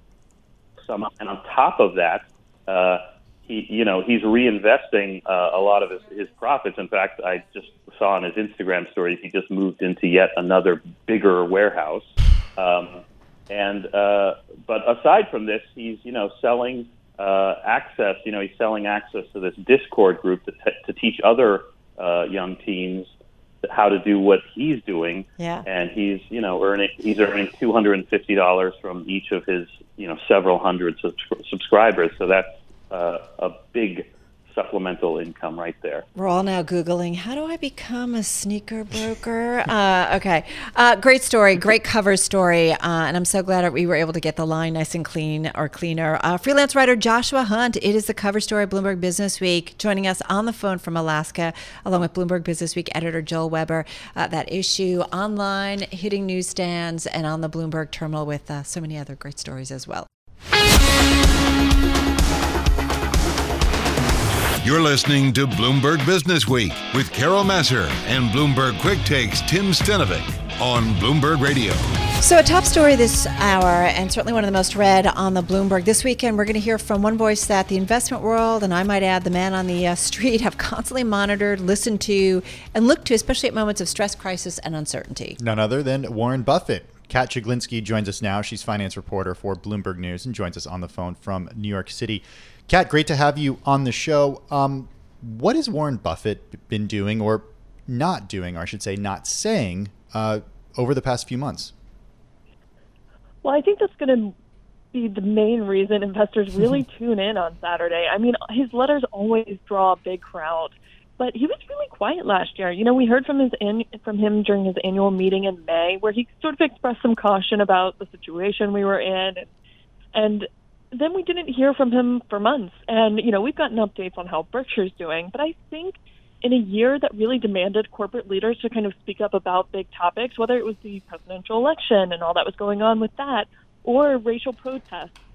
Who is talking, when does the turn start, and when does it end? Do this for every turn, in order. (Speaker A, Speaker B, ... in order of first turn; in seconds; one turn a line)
Speaker A: 0.8-23.1
Speaker A: 23.6-36.1
Speaker B: 25.4-25.6
Speaker B: 36.1-60.1
Speaker C: 64.6-71.9
Speaker B: 72.2-85.4
Speaker D: 85.4-101.7
Speaker E: 103.4-104.3
Speaker E: 104.9-119.5
Speaker E: 120.1-135.1